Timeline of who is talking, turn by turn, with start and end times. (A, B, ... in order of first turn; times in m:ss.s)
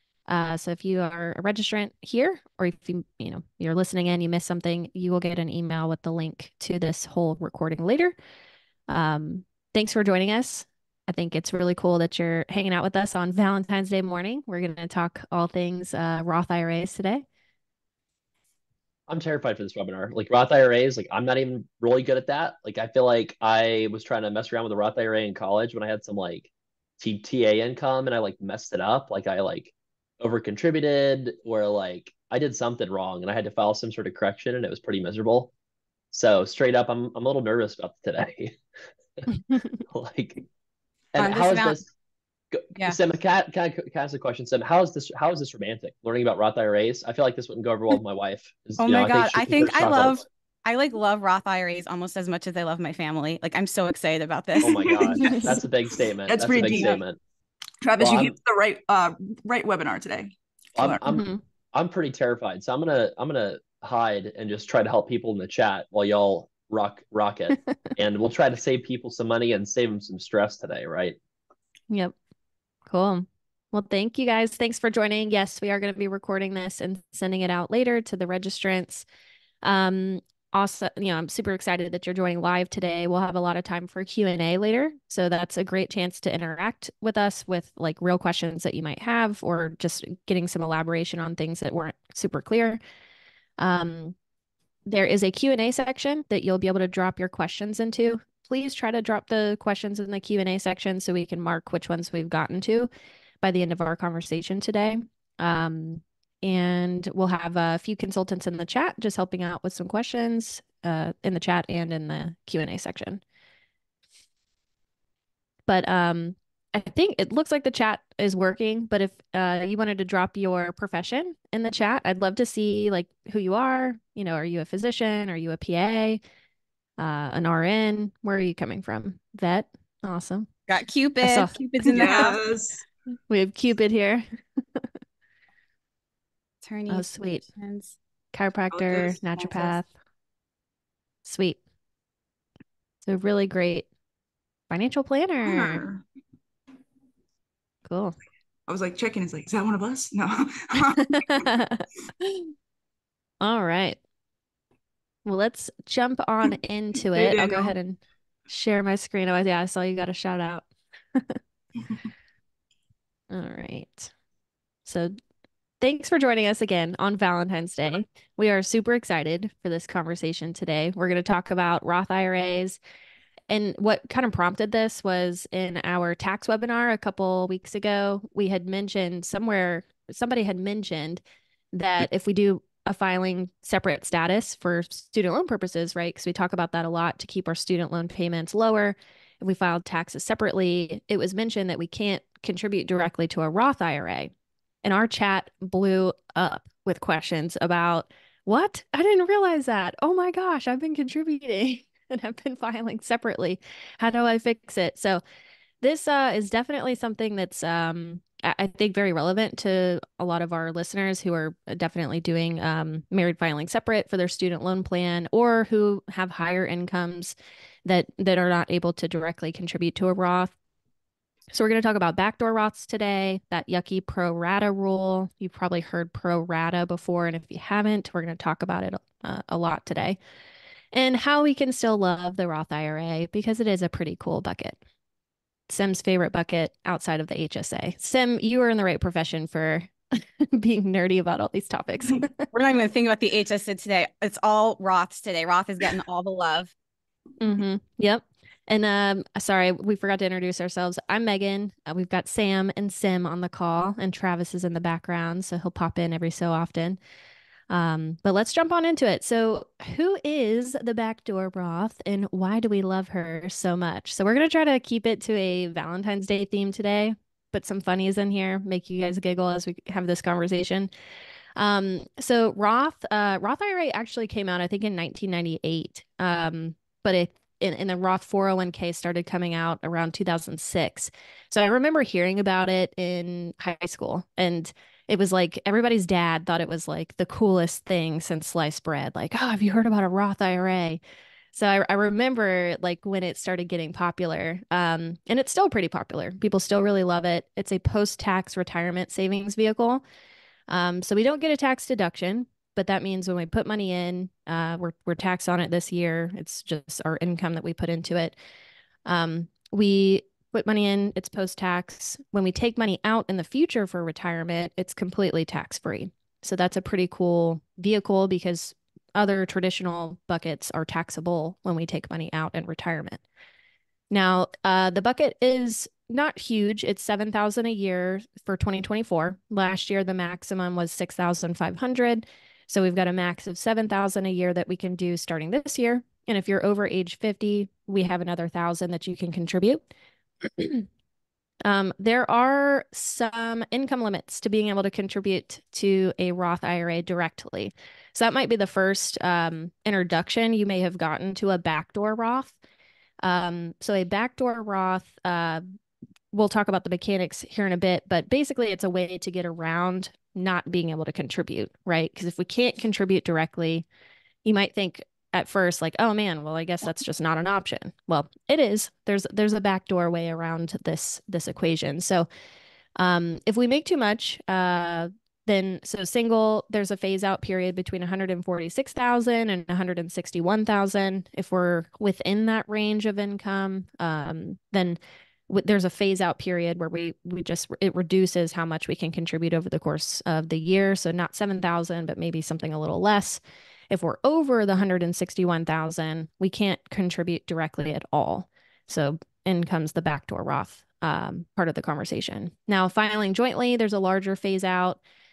0:00.3-0:08.1 A
0:08.9-0:17.2 A
0:19.1-0:35.5 B
0:36.1-0:38.6 B
0:39.8-0:40.4 B
0:41.1-0:41.9 B
0:41.2-0:41.8 C
0:42.5-0:50.2 B
0:48.8-0:55.2 C
0:54.6-0:57.2 B
0:54.6-0:55.6 D
0:56.3-0:57.0 D
0:56.7-0:57.0 C
0:57.8-1:01.0 D
0:58.0-0:58.3 B
1:00.8-1:11.2 B
1:01.1-1:01.4 A
1:12.9-1:19.0 A
1:19.6-1:32.8 A
1:33.6-1:34.1 A
1:34.9-1:42.9 A
1:43.4-1:53.2 A
1:55.7-2:06.2 A
2:07.0-2:10.5 A
2:10.7-2:12.4 C
2:11.2-2:12.3 A
2:11.9-2:12.8 D
2:13.3-2:14.2 A
2:16.6-2:18.0 C
2:16.9-2:17.4 A
2:18.3-2:19.9 A
2:18.7-2:19.7 D
2:21.2-2:21.6 A
2:23.0-2:23.9 A
2:24.7-2:25.8 A
2:25.4-2:26.0 D
2:27.9-2:28.2 A
2:28.7-2:31.5 D
2:31.1-2:32.5 A
2:33.4-2:34.0 A
2:35.2-2:41.4 A
2:37.1-2:37.7 D
2:43.3-2:44.1 A
2:44.8-2:45.2 A
2:45.8-2:52.8 A
2:53.5-3:14.3 A
3:14.8-3:25.2 A
3:25.8-3:40.5 A
3:41.5-3:50.2 A
3:50.9-3:54.8 A
3:55.7-4:02.5 A
4:02.5-4:06.7 C
4:07.4-4:17.0 A
4:17.7-4:30.9 A
4:31.6-4:51.0 A
4:51.5-5:00.0 A
5:00.7-5:08.3 A
5:09.0-5:23.2 A
5:24.1-5:39.8 A
5:40.5-5:40.9 A
5:41.6-5:52.5 A
5:53.2-5:55.6 A
5:56.3-6:03.8 A
6:04.4-6:12.3 A
6:13.0-6:45.0 A